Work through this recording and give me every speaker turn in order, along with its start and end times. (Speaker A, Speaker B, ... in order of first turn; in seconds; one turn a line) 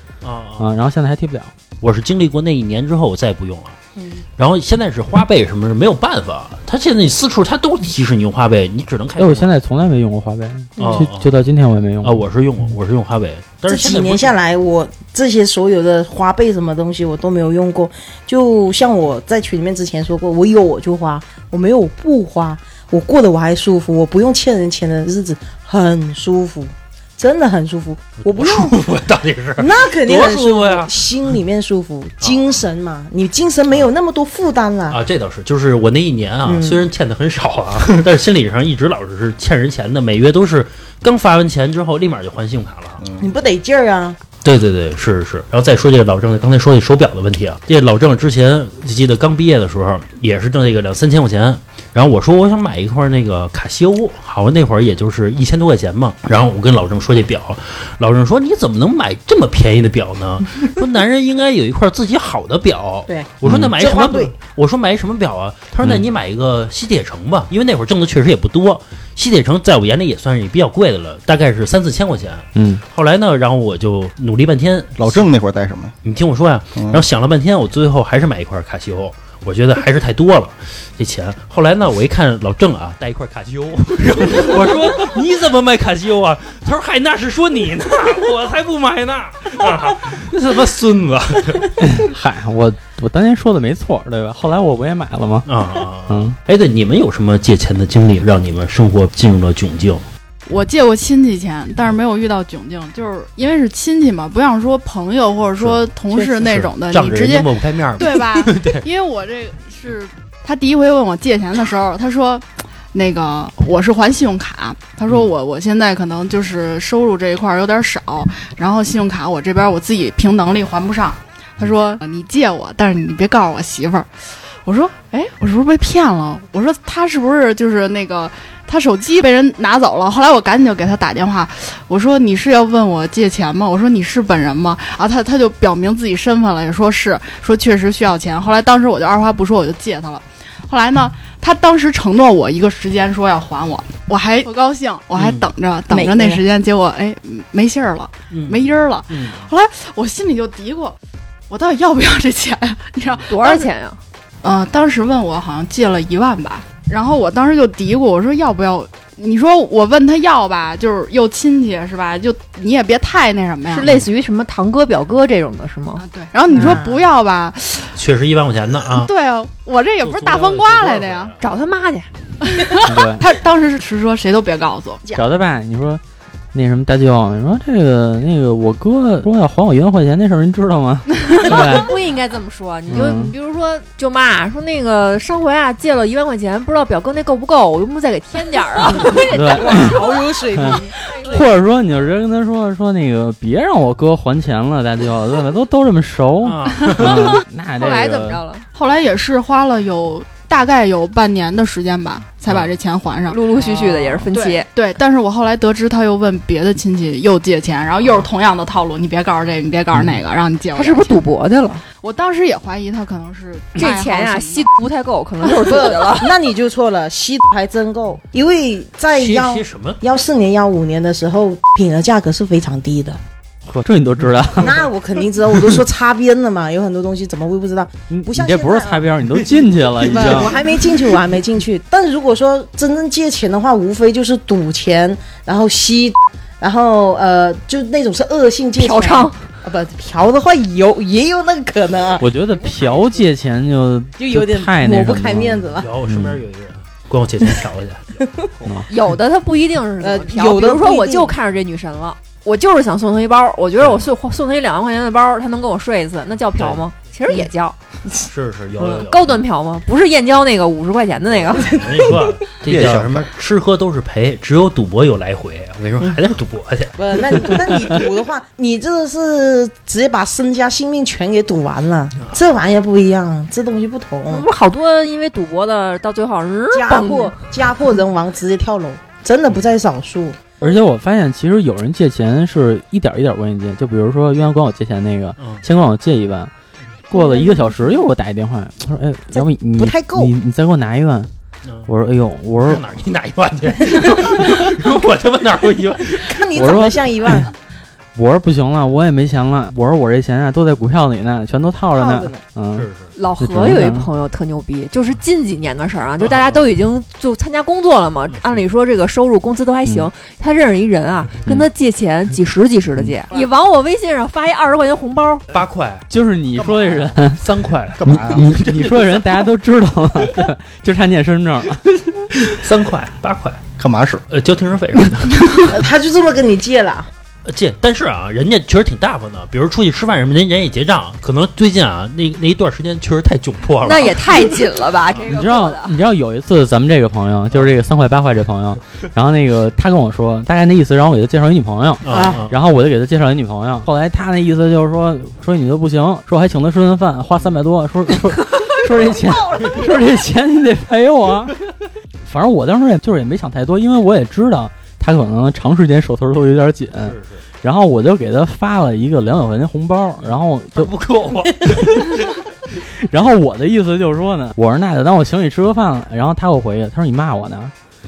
Speaker A: 0.2-0.7
Speaker B: 0.6-1.5
Speaker A: 1.8-3.8
Speaker C: 4.0-4.2
Speaker A: 4.4-9.5
Speaker B: 9.2-12.2
Speaker C: 10.8-11.1
Speaker A: 10.8-11.3
Speaker A: 12.0-14.3
Speaker C: 13.7-28.8
Speaker A: 28.2-30.9
Speaker C: 29.6-35.0
Speaker A: 34.9-43.0
Speaker C: 36.4-36.8
Speaker D: 43.0-43.3
Speaker C: 43.2-44.2
Speaker A: 44.4-75.3
Speaker C: 63.1-64.3
Speaker B: 63.4-63.7
Speaker B: 72.5-72.8
Speaker D: 75.0-75.9
Speaker A: 76.0-91.8
Speaker D: 76.8-77.0
Speaker B: 91.8-95.5
Speaker A: 95.5-100.0
Speaker B: 96.1-96.3
Speaker E: 100.5-124.1
Speaker A: 105.6-108.8
Speaker E: 124.6-150.9
Speaker A: 145.1-145.5
Speaker C: 145.9-146.4
Speaker A: 148.3-149.4
Speaker E: 151.5-153.7
Speaker F: 153.3-154.0
Speaker E: 154.4-164.0
Speaker F: 163.7-166.0
Speaker E: 166.0-168.0
Speaker C: 166.5-167.0
Speaker A: 167.9-169.1
Speaker E: 168.9-171.3
Speaker A: 170.0-171.6
Speaker F: 171.4-172.1
Speaker E: 172.4-175.0
Speaker B: 172.8-173.2
Speaker B: 175.1-176.0
Speaker B: 176.5-181.9
Speaker F: 181.3-190.3
Speaker B: 182.9-183.3
Speaker B: 189.3-190.0
Speaker C: 189.5-190.9
Speaker B: 190.5-198.4
Speaker A: 196.4-197.4
Speaker F: 197.0-198.7
Speaker E: 198.7-211.2
Speaker A: 202.4-202.7
Speaker F: 203.3-204.7
Speaker F: 210.8-211.8
Speaker E: 212.0-214.7
Speaker F: 213.8-216.3
Speaker C: 215.6-223.2
Speaker A: 219.1-220.0
Speaker B: 223.7-224.7
Speaker C: 224.6-229.1
Speaker B: 228.1-230.5
Speaker C: 230.0-242.2
Speaker F: 238.8-239.4
Speaker B: 242.2-246.4
Speaker C: 244.2-245.9
Speaker A: 245.8-248.0
Speaker C: 248.2-248.5
Speaker F: 248.9-257.8
Speaker C: 250.0-251.4
Speaker A: 253.8-254.1
Speaker A: 256.5-256.8
Speaker A: 258.2-259.4
Speaker F: 258.8-261.8
Speaker A: 261.3-267.7
Speaker C: 261.6-262.3
Speaker D: 262.6-263.3
Speaker C: 266.9-274.5
Speaker F: 274.3-277.4
Speaker C: 276.7-280.6
Speaker B: 280.6-286.5
Speaker B: 287.1-291.3
Speaker C: 287.1-288.0
Speaker C: 289.3-290.3
Speaker B: 291.9-292.8
Speaker A: 292.6-296.4
Speaker C: 296.1-297.5
Speaker B: 296.5-297.5
Speaker B: 298.1-302.9
Speaker C: 301.9-302.4
Speaker A: 302.7-303.1
Speaker F: 303.1-315.4
Speaker B: 303.4-304.1
Speaker A: 306.2-306.7
Speaker A: 308.3-308.6
Speaker A: 315.5-316.0
Speaker B: 316.1-317.4
Speaker D: 316.5-317.3
Speaker A: 317.4-319.1
Speaker D: 318.0-318.8
Speaker B: 318.3-321.8
Speaker A: 322.3-323.6
Speaker D: 323.8-324.2
Speaker A: 324.3-325.8
Speaker C: 325.7-327.1
Speaker A: 327.4-334.4
Speaker F: 333.8-335.9
Speaker B: 335.3-351.5
Speaker A: 342.0-342.5
Speaker C: 342.1-342.4
Speaker F: 349.0-349.8
Speaker B: 352.2-360.9
Speaker A: 357.0-357.4
Speaker A: 360.2-362.4
Speaker B: 362.8-367.7